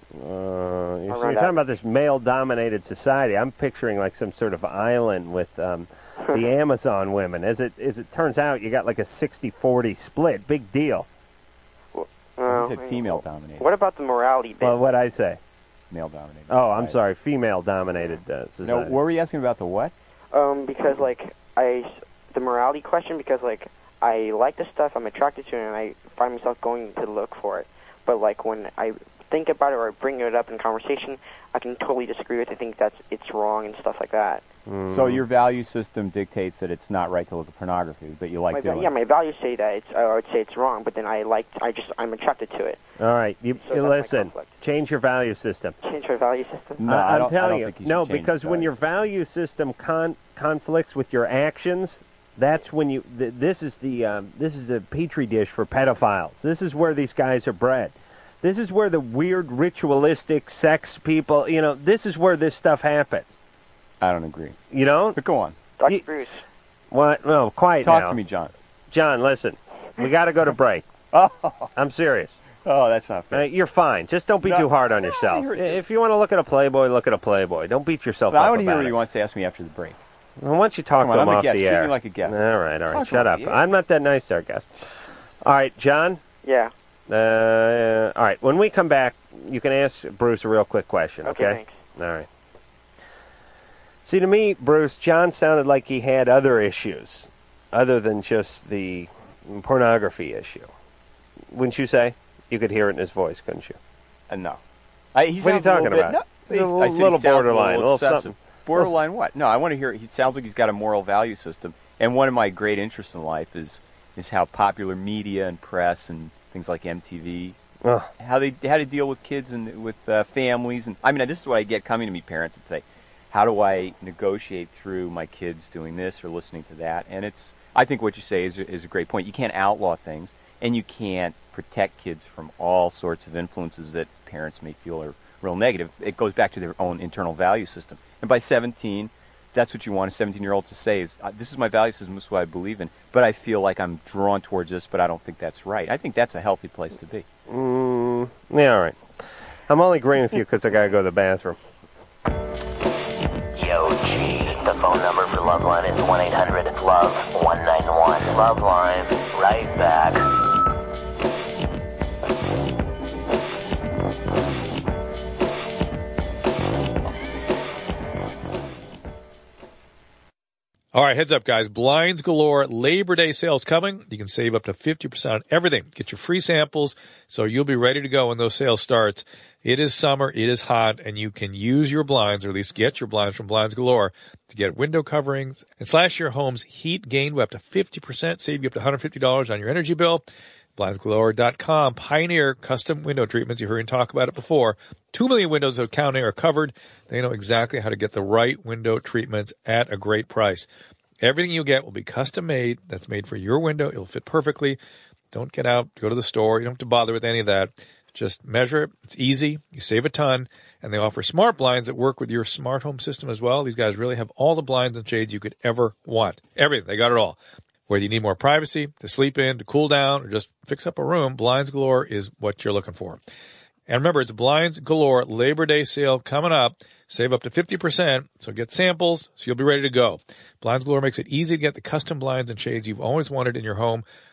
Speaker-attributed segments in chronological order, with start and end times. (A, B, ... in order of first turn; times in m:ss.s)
0:00.1-0:11.1 A
0:01.1-0:01.6 B
0:11.9-0:14.8 B
0:12.5-0:13.7 C
0:14.6-0:15.4 A
0:15.9-0:17.0 C
0:16.5-0:19.0 A
0:18.6-0:19.9 C
0:20.3-0:34.4 B
0:34.7-0:35.2 A
0:34.9-0:38.9 C
0:38.5-0:42.8 B
0:43.0-0:45.8 A
0:43.6-0:44.6 B
0:45.8-0:46.8 B
0:46.8-0:48.8 C
0:46.8-1:03.3 A
1:04.0-1:04.6 C
1:04.7-1:05.2 A
1:05.2-1:05.6 C
1:05.8-1:06.4 B
1:06.9-1:08.2 A
1:07.8-1:08.5 C
1:08.9-1:10.9 A
1:11.1-1:11.7 C
1:11.8-1:12.4 A
1:12.6-1:13.5 C
1:13.3-1:19.0 A
1:14.4-1:15.8 C
1:18.3-1:20.0 C
1:20.4-1:24.7 A
1:21.0-1:23.6 C
1:25.4-1:26.2 A
1:26.4-1:26.7 B
1:27.1-1:32.3 A
1:31.2-1:31.8 B
1:34.0-1:40.7 A
1:41.5-1:43.8 A
1:44.3-1:44.6 C
1:45.2-1:57.6 C
1:45.4-1:48.9 A
1:57.8-1:58.1 A
1:58.2-2:27.3 C
2:27.5-2:29.0 A
2:29.7-2:31.6 A
2:33.6-2:40.3 D
2:50.9-3:10.2 E
3:10.8-3:20.7 E
3:21.2-3:24.8 E
3:25.3-3:37.4 E
3:37.9-3:43.2 E
3:43.9-3:54.0 E